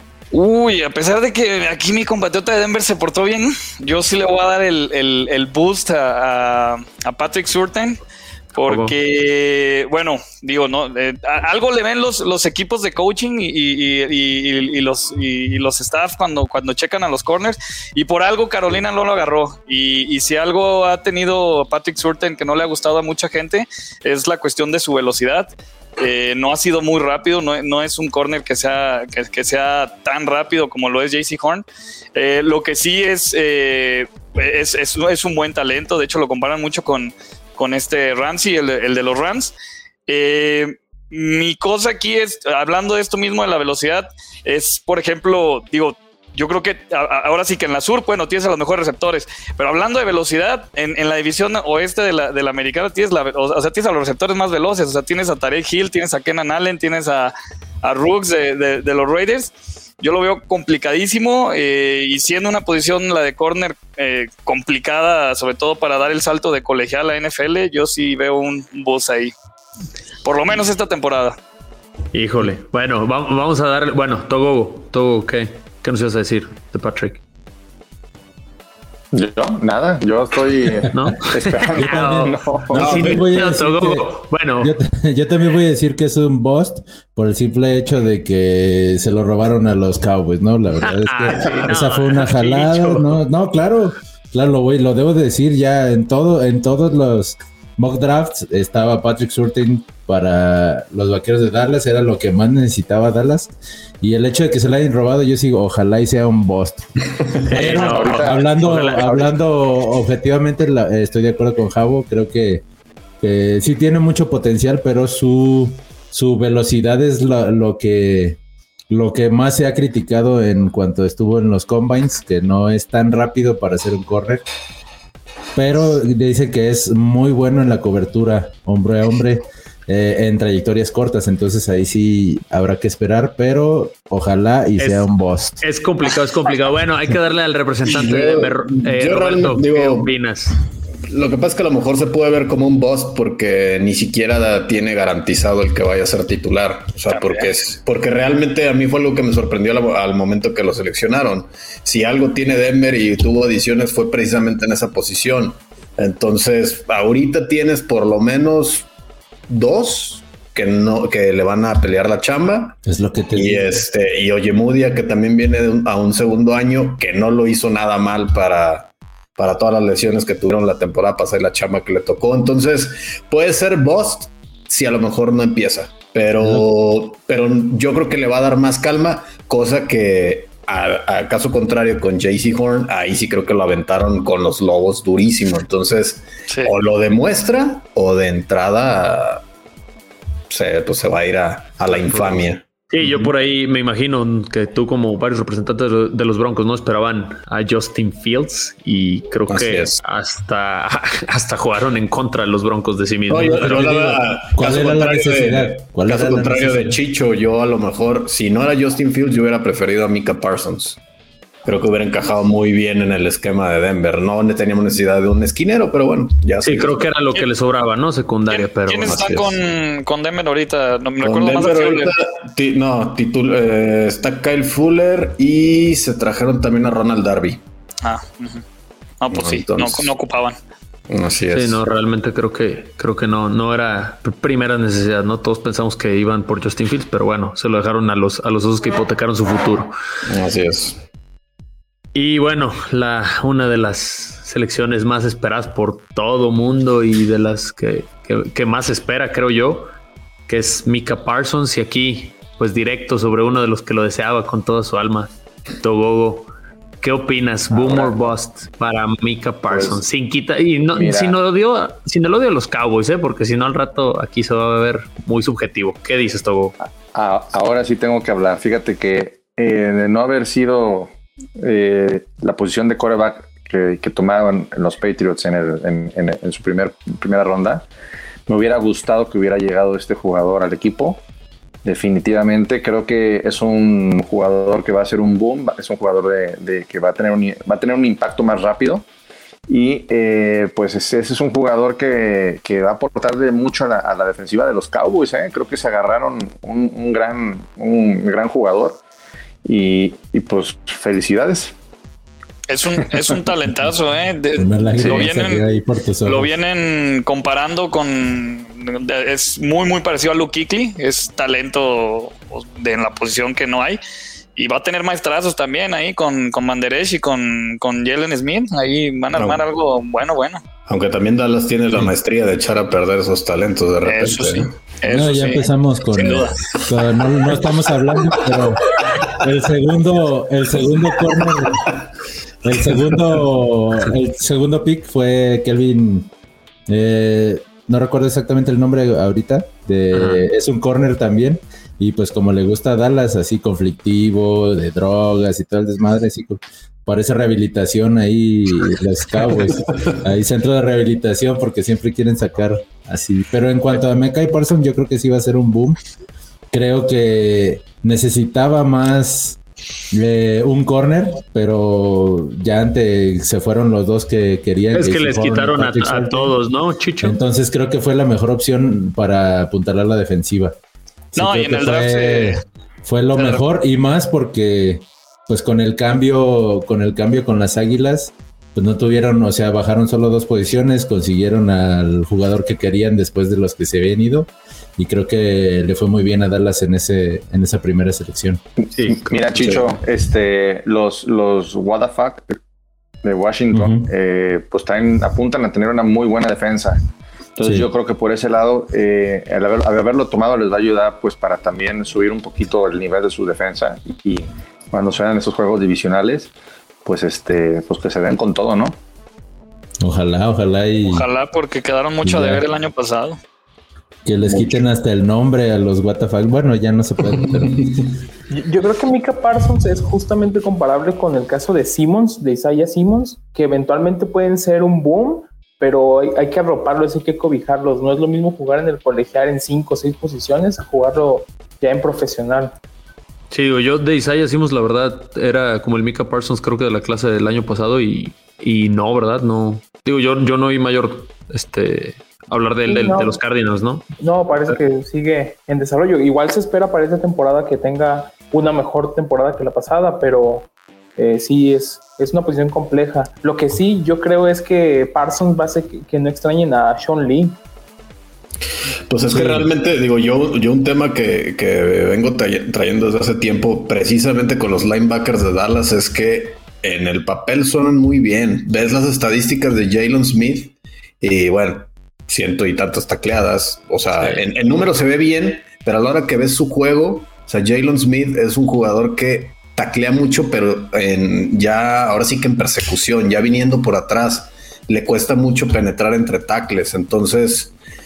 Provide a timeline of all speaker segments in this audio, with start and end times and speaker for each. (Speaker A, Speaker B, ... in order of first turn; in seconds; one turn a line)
Speaker A: 0.3-8.0
Speaker A: 8.5-39.5
Speaker B: 8.7-8.9
Speaker A: 40.1-69.3
Speaker A: 70.2-71.3
Speaker B: 72.1-77.2
Speaker C: 79.1-82.8
Speaker B: 80.9-84.7
Speaker D: 81.7-106.8
Speaker E: 82.7-83.3
Speaker B: 90.8-93.2
Speaker B: 107.5-109.3
Speaker D: 107.5-112.6
Speaker C: 107.6-109.2
Speaker D: 113.2-124.5
Speaker D: 125.5-135.6
Speaker B: 134.8-135.1
Speaker B: 135.6-140.6
Speaker E: 137.8-140.1
Speaker E: 141.1-158.9
Speaker A: 147.1-147.5
Speaker E: 159.5-162.8
Speaker D: 162.8-163.8
Speaker E: 163.3-189.4
Speaker D: 176.4-176.7
Speaker E: 190.5-193.3
Speaker B: 192.1-203.9
Speaker E: 199.5-200.0
Speaker E: 203.3-211.0
Speaker D: 203.5-207.0
Speaker E: 211.6-217.0
Speaker B: 216.6-219.2
Speaker A: 218.5-222.1
Speaker E: 219.0-219.6
Speaker E: 221.2-227.6
Speaker A: 228.0-228.6
Speaker A: 229.2-230.6
Speaker E: 229.3-230.1
Speaker E: 231.1-231.8
Speaker B: 231.5-239.9
Speaker E: 240.3-241.0
Speaker B: 242.1-249.9
Speaker B: 250.5-256.5
Speaker B: 257.0-266.7
Speaker C: 257.7-258.3
Speaker C: 259.7-260.0
Speaker C: 260.9-261.4
Speaker C: 266.8-277.9
Speaker C: 278.5-281.2
Speaker C: 281.8-289.1
Speaker C: 289.7-299.0
Speaker C: 299.6-301.7
Speaker A: 302.7-305.6
Speaker D: 304.6-306.5
Speaker A: 306.2-314.0
Speaker A: 314.6-320.6
Speaker E: 319.3-319.6
Speaker E: 320.9-324.8
Speaker A: 324.0-326.5
Speaker D: 325.1-331.9
Speaker D: 332.6-336.3
Speaker D: 336.9-356.0
Speaker B: 340.1-340.4
Speaker D: 356.7-359.6
Speaker D: 360.1-366.6
Speaker B: 364.9-367.4
Speaker D: 367.2-370.8
Speaker D: 371.3-388.6
Speaker A: 371.4-372.6
Speaker A: 373.4-373.6
Speaker C: 389.0-392.6
Speaker C: 393.2-397.0
Speaker D: 393.7-394.1
Speaker C: 397.6-406.5
Speaker D: 397.6-397.9
Speaker C: 407.0-409.0
Speaker D: 410.0-411.3
Speaker A: 411.1-413.4
Speaker D: 412.2-412.6
Speaker D: 414.2-418.1
Speaker E: 414.5-414.8
Speaker F: 418.5-432.8
Speaker B: 433.5-444.1
Speaker F: 442.9-443.4
Speaker F: 444.2-457.6
Speaker E: 459.1-487.8
Speaker D: 459.3-459.7
Speaker B: 474.2-474.4